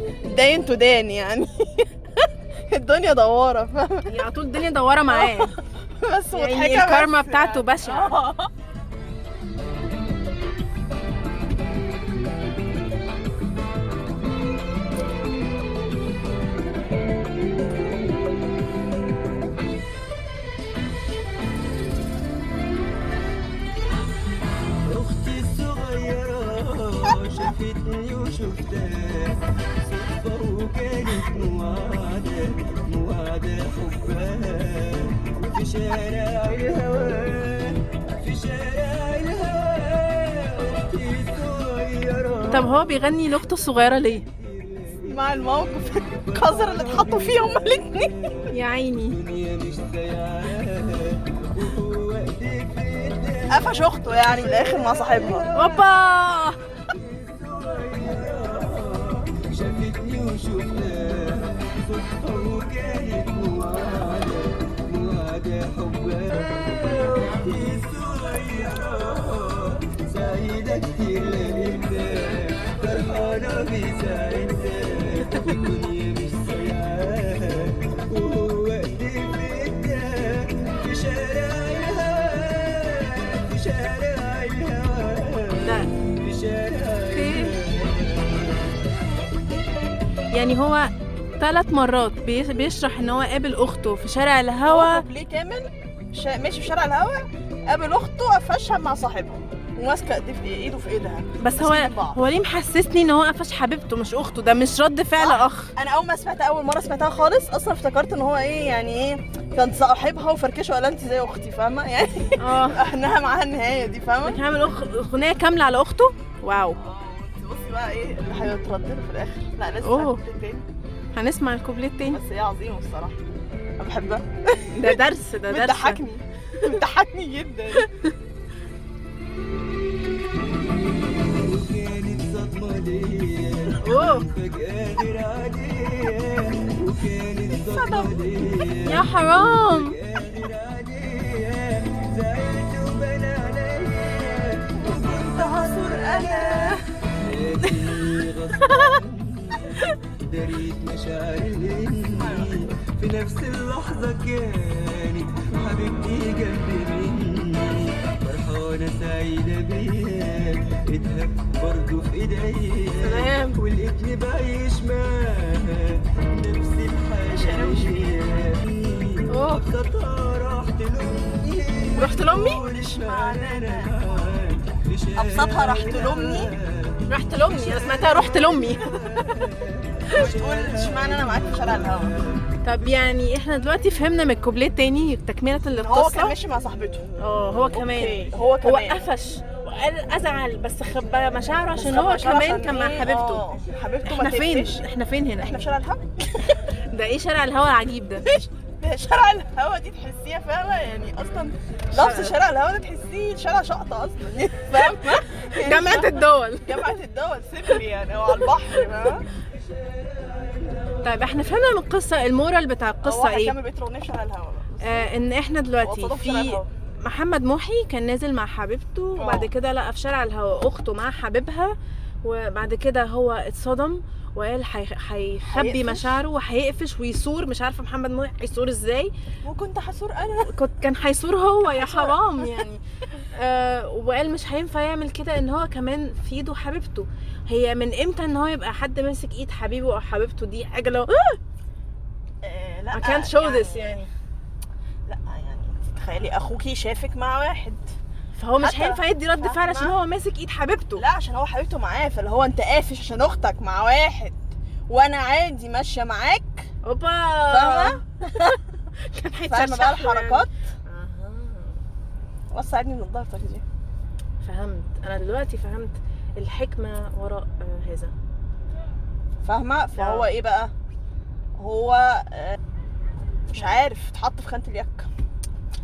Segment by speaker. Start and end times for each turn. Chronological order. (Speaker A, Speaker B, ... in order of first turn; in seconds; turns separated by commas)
Speaker A: 0.3-4.2, Speaker B: 4.1-5.5, Speaker A: 5.1-8.5, Speaker B: 6.3-8.2, Speaker C: 24.8-42.7, Speaker B: 42.5-44.2, Speaker C: 44.4-45.4, Speaker A: 45.0-48.1, Speaker C: 46.2-48.5, Speaker B: 48.5-49.2, Speaker C: 49.1-55.9, Speaker A: 53.5-55.5, Speaker B: 55.5-56.6, Speaker C: 56.9-88.7, Speaker B: 85.6-85.9, Speaker B: 87.1-87.5, Speaker A: 88.9-89.6, Speaker B: 90.3-95.0, Speaker A: 94.7-102.2, Speaker B: 101.4-105.7, Speaker A: 105.2-114.4, Speaker B: 112.4-112.8, Speaker B: 114.2-116.8, Speaker A: 116.8-120.7, Speaker B: 119.8-120.2, Speaker B: 121.1-122.2, Speaker A: 122.1-123.2, Speaker A: 123.8-125.0, Speaker B: 124.7-126.0, Speaker A: 125.5-127.8, Speaker B: 127.8-128.1, Speaker C: 131.2-177.0, Speaker B: 133.8-134.3, Speaker A: 137.7-138.1, Speaker B: 138.8-139.9, Speaker A: 144.8-146.8, Speaker B: 148.6-149.0, Speaker A: 152.2-152.7, Speaker B: 163.0-163.6, Speaker A: 167.3-168.1, Speaker B: 169.3-169.6, Speaker A: 171.9-174.4, Speaker B: 172.0-172.6, Speaker A: 175.1-176.6, Speaker B: 177.1-179.0, Speaker A: 177.5-178.4, Speaker C: 178.8-182.4, Speaker A: 180.1-182.1, Speaker B: 182.6-186.3, Speaker A: 185.7-187.1, Speaker B: 187.2-193.4, Speaker A: 187.7-189.1, Speaker A: 191.8-194.8, Speaker B: 194.0-195.5, Speaker A: 195.4-196.6, Speaker B: 196.9-198.2, Speaker A: 198.2-209.3, Speaker B: 201.9-202.3, Speaker B: 204.7-206.8, Speaker C: 210.2-210.7, Speaker B: 211.0-213.6, Speaker A: 213.0-215.1, Speaker B: 214.8-229.1, Speaker A: 215.8-216.7, Speaker A: 219.2-219.5, Speaker A: 225.4-226.2, Speaker A: 229.4-230.5, Speaker B: 230.4-232.8, Speaker A: 231.6-232.5, Speaker B: 233.3-241.4, Speaker A: 242.4-244.0, Speaker B: 242.9-244.1, Speaker A: 245.1-247.8, Speaker B: 248.3-251.0, Speaker A: 248.6-249.9, Speaker A: 251.0-254.4, Speaker A: 254.9-256.7, Speaker B: 256.8-261.8, Speaker A: 257.5-258.5, Speaker A: 259.5-260.5, Speaker A: 262.5-263.6, Speaker B: 264.4-268.1, Speaker A: 269.4-270.7, Speaker B: 269.9-270.3, Speaker A: 271.6-272.6, Speaker A: 273.5-275.1